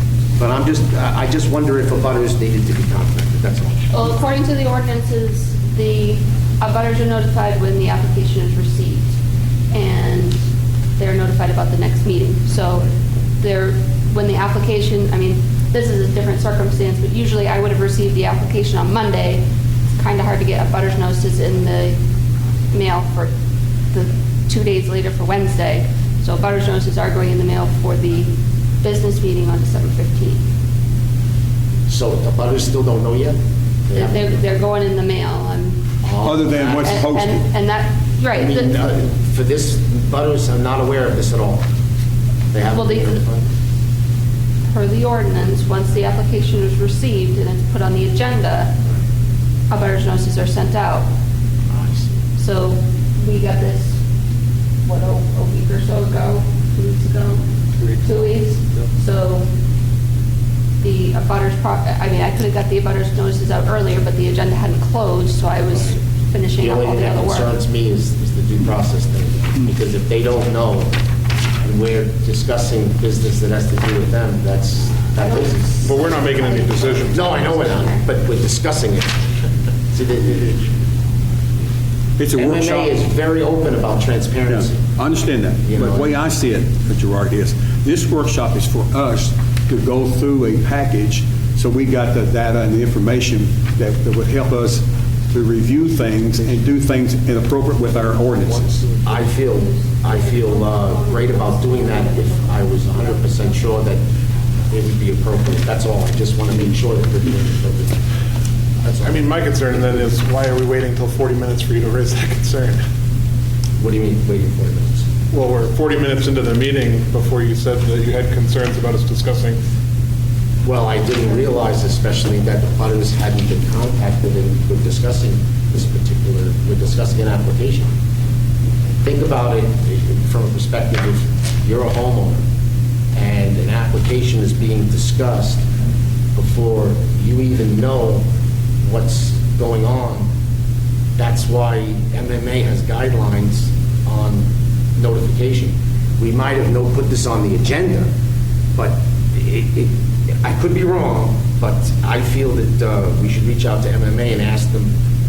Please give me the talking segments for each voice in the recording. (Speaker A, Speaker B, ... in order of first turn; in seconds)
Speaker A: 0.4-4.2, 31.9-33.4, 33.9-34.4, 36.0-37.0, 38.3-41.6, 42.5-43.5, 51.7-52.2, 66.6-70.9, 71.6-76.2, 77.1-79.2, 79.9-80.6, 82.3-84.9, 85.6-86.2, 99.0-104.0, 104.7-108.1, 108.8-109.2, 113.8-115.1, 120.6-127.9, 129.0-132.4, 133.2-135.6, 136.3-138.2, 138.8-140.3, 141.2-148.1, 148.8-154.9
Speaker B: 3.9-9.1, 9.7-10.4, 11.0-12.9, 13.4-19.4, 19.9-22.0, 22.7-23.3, 23.9-30.4, 34.0-35.8, 36.7-38.7, 42.7-43.2, 44.7-48.7, 49.7-51.1, 52.4-54.0, 54.8-57.4, 58.0-59.5, 60.8-67.5, 75.2-75.5, 76.2-78.0, 99.5-103.7
Speaker C: 36.2-37.4, 82.2-82.9, 84.5-98.8
Speaker D: 57.8-58.0, 75.8-77.4, 109.0-112.8, 115.3-119.6